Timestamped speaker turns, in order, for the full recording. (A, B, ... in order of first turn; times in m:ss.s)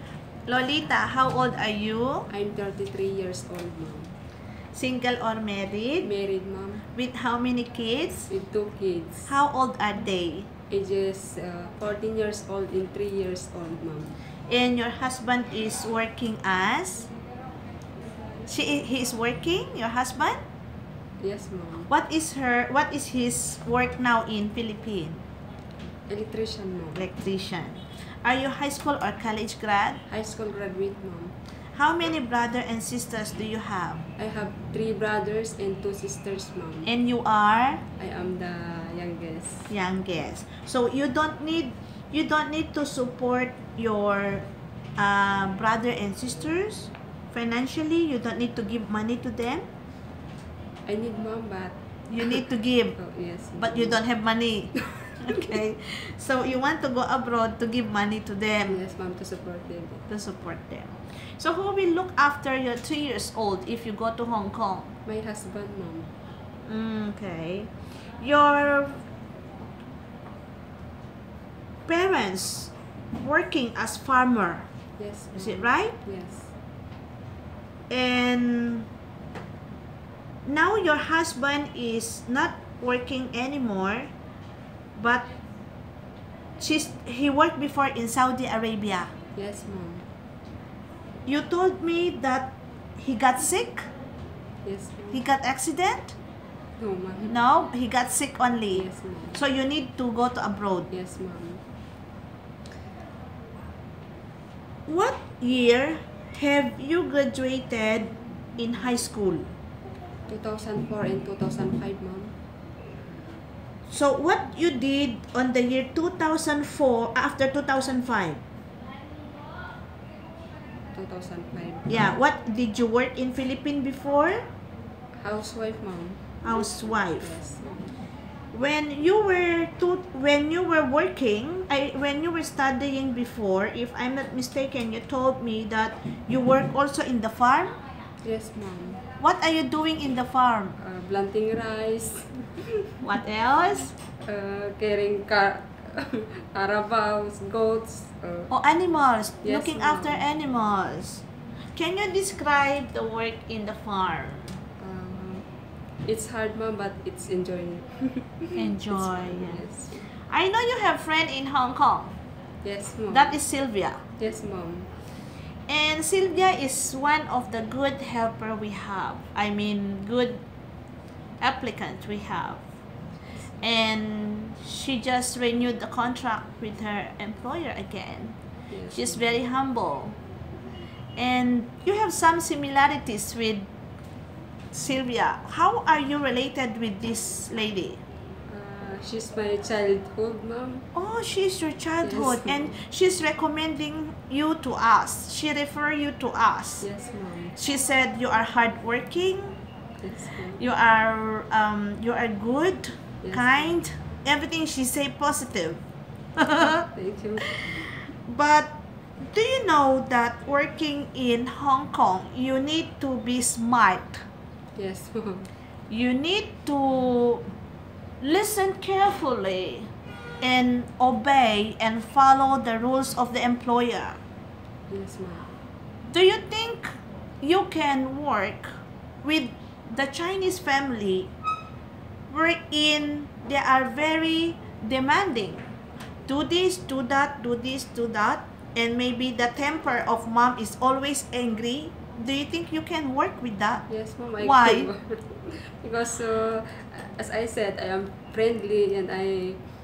0:00.5-0:02.3 A
0:02.3-0:04.1 B
0:04.7-0:06.1 A
0:06.0-0:06.9 B
0:07.0-0:08.3 A
0:08.3-0:09.3 B
0:09.3-0:10.5 A
0:10.7-0:14.2 B
0:14.5-0:17.1 A
0:18.5-0:20.4 A
0:21.2-0:21.9 B
0:21.9-0:25.2 A
0:26.1-0:27.1 B
0:27.0-0:30.0 A
0:30.1-0:31.4 B
0:31.7-0:34.0 A
0:34.2-0:36.9 B
0:36.8-0:37.8 A
0:38.0-0:39.7 B
0:39.7-0:44.5 A
0:45.0-0:49.7 A
0:50.9-0:54.0 B
0:52.1-0:53.0 A
0:53.6-0:58.8 A
0:58.7-1:00.0 B
1:00.1-1:04.9 A
1:05.0-1:06.1 B
1:06.7-1:09.0 A
1:11.9-1:14.7 A
1:15.0-1:16.5 B
1:15.4-1:15.9 A
1:17.9-1:18.9 A
1:20.4-1:24.1 A
1:25.0-1:25.3 A
1:26.6-1:29.1 A
1:29.4-1:30.1 B
1:31.3-1:33.9 A
1:34.6-1:35.2 B
1:35.1-1:36.2 A
1:36.8-1:37.4 B
1:37.3-1:40.9 A
1:38.7-1:39.4 B
1:40.9-1:41.6 B
1:44.9-1:49.5 A
1:50.3-1:52.4 B
1:53.9-1:58.4 A
2:00.9-2:02.2 B
2:01.9-2:04.5 A
2:05.2-2:06.2 B
2:06.4-2:07.3 A
2:07.2-2:08.0 B
2:08.5-2:17.8 A
2:18.2-2:19.0 B
2:19.2-2:20.8 A
2:20.8-2:22.9 B
2:23.0-2:23.9 A
2:24.1-2:28.5 B
2:28.5-2:31.2 A
2:29.4-2:30.3 B
2:31.8-2:34.6 A
2:34.8-2:35.5 B
2:36.0-2:40.1 B
2:38.6-2:42.2 A
2:42.6-2:43.4 B
2:43.1-2:44.0 A
2:44.2-2:44.9 B
2:45.7-2:50.4 A
2:51.4-2:52.6 A
2:53.6-2:58.4 A
2:58.7-2:59.2 B
2:58.9-3:00.2 A
3:01.2-3:03.7 A
3:04.7-3:08.0 A
3:08.5-3:10.9 B
3:11.0-3:16.9 A
3:12.0-3:12.8 B
3:16.8-3:17.6 B
3:17.6-3:19.6 A
3:20.0-3:20.6 B
3:20.6-3:25.8 A
3:23.2-3:23.8 B
3:26.4-3:26.8 A
3:26.6-3:27.8 B
3:27.6-3:34.2 A
3:34.8-3:35.5 B
3:35.9-3:37.4 A
3:38.2-3:39.9 A
3:40.4-3:44.2 A
3:44.9-3:45.5 B
3:46.1-3:51.3 A
3:52.3-3:55.6 A
3:56.3-4:03.9 A
4:03.9-4:09.6 B
4:04.4-4:04.9 A